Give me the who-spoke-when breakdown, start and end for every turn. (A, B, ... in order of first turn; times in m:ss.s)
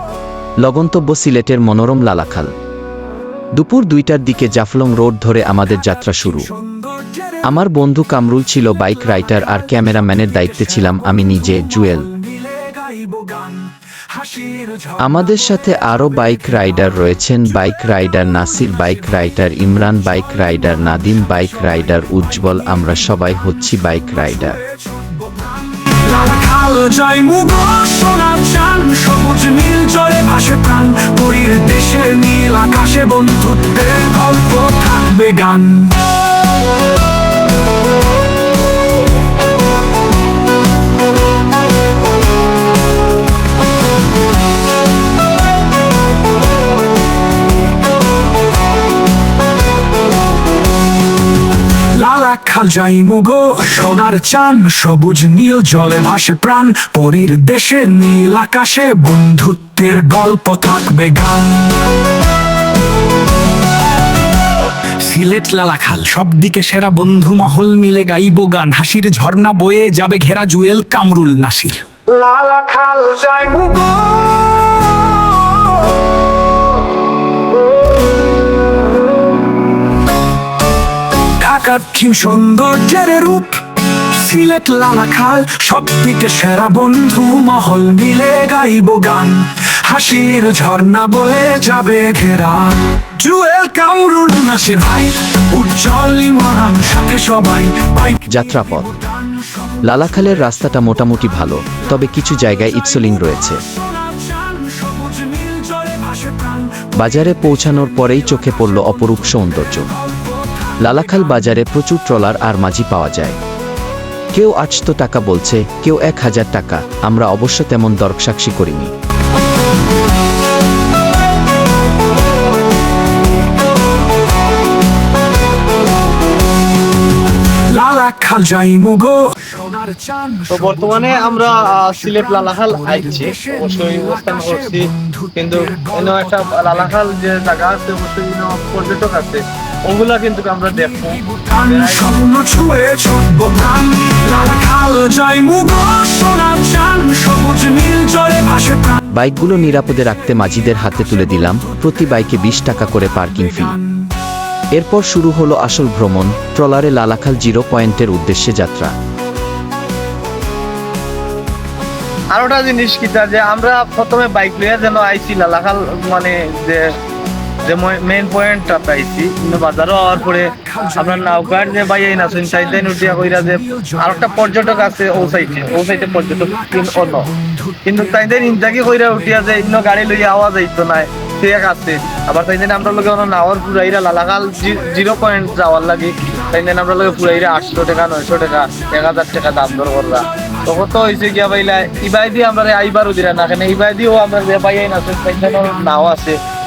0:00.6-0:02.5 A
0:03.6-0:06.5 A
0:06.1-0:07.4 B
0:07.4-0:12.1 A
0:09.0-0:15.3 B
0:15.0-0:24.6 A
0:21.6-0:22.0 B
0:24.6-0:36.1 B
0:51.9-1:01.8 B
1:05.0-1:14.4 B
1:21.4-1:40.2 B
1:38.3-1:38.9 A
1:39.8-1:43.6 A
1:43.7-1:46.9 B
1:47.0-1:49.9 A
1:49.9-1:51.3 B
1:50.8-1:53.4 A
1:54.3-1:58.9 A
2:07.7-2:16.9 B
2:10.5-2:22.1 C
2:20.8-2:29.0 B
2:29.1-2:33.8 A
2:34.7-2:38.9 A
2:42.3-2:46.8 C
2:47.6-2:57.3 C
2:50.2-2:57.9 B
2:57.8-3:16.4 C